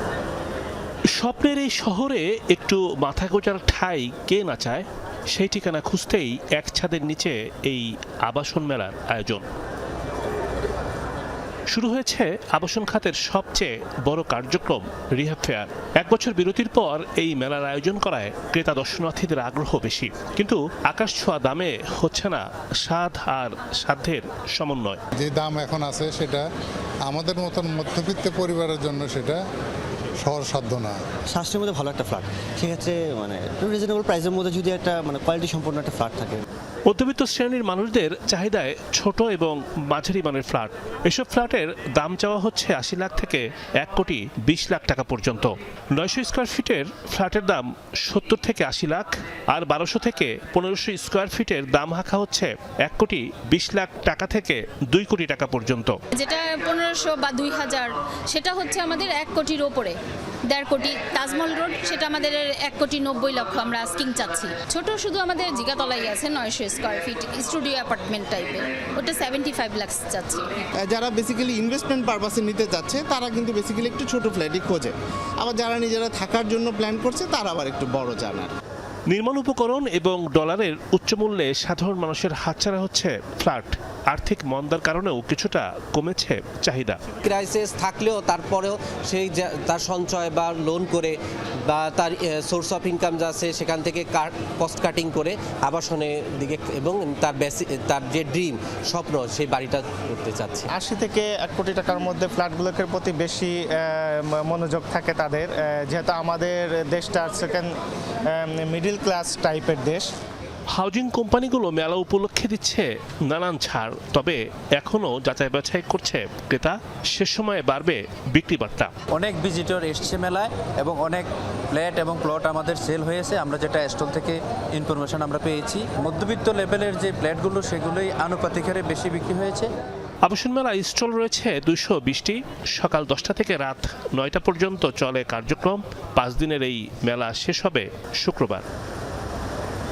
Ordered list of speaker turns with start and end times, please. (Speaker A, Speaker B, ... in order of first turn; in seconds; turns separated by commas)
Speaker A: 1.1-9.4, Speaker A: 11.7-25.0, Speaker B: 25.2-26.4, Speaker B: 27.1-29.4, Speaker B: 30.2-31.0, Speaker C: 31.3-36.4, Speaker A: 36.9-56.0, Speaker D: 56.1-60.0, Speaker D: 60.5-70.5, Speaker E: 70.8-78.5, Speaker A: 79.1-87.0, Speaker F: 87.2-100.7, Speaker G: 100.7-107.7, Speaker G: 108.3-110.1, Speaker A: 110.7-118.9, Speaker H: 119.2-129.7, Speaker A: 130.2-138.6